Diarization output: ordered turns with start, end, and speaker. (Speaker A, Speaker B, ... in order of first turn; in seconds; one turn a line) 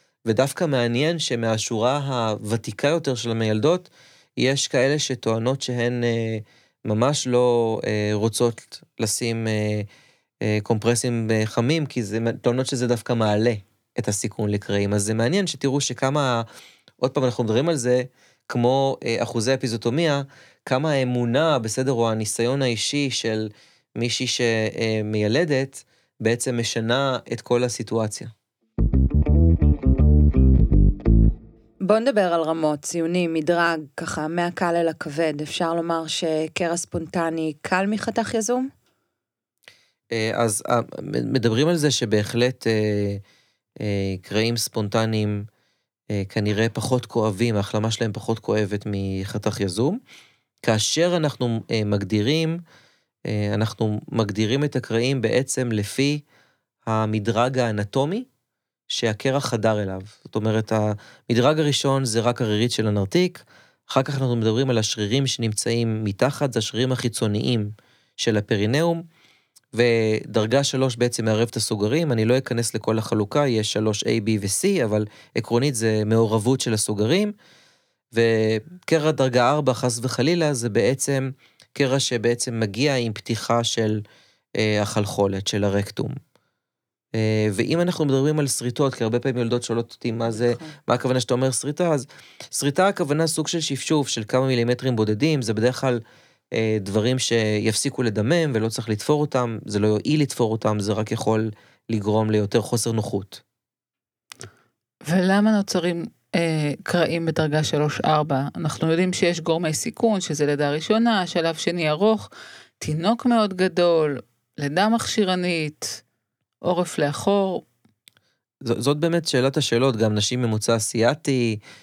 Speaker A: 0.3-9.9
Speaker A: 10.4-16.5
Speaker A: 17.0-28.3
Speaker B: 31.8-38.7
Speaker A: 40.1-43.2
Speaker A: 43.8-45.5
Speaker A: 46.1-50.0
Speaker A: 50.6-52.6
Speaker A: 53.3-56.2
Speaker A: 56.9-58.3
Speaker A: 58.9-69.0
Speaker A: 69.7-77.3
Speaker A: 78.1-84.0
Speaker A: 84.6-86.2
Speaker A: 87.1-96.0
Speaker B: 90.3-90.8
Speaker A: 96.5-103.4
Speaker C: 105.0-112.3
Speaker C: 112.8-116.0
Speaker C: 116.6-117.7
Speaker A: 118.6-121.6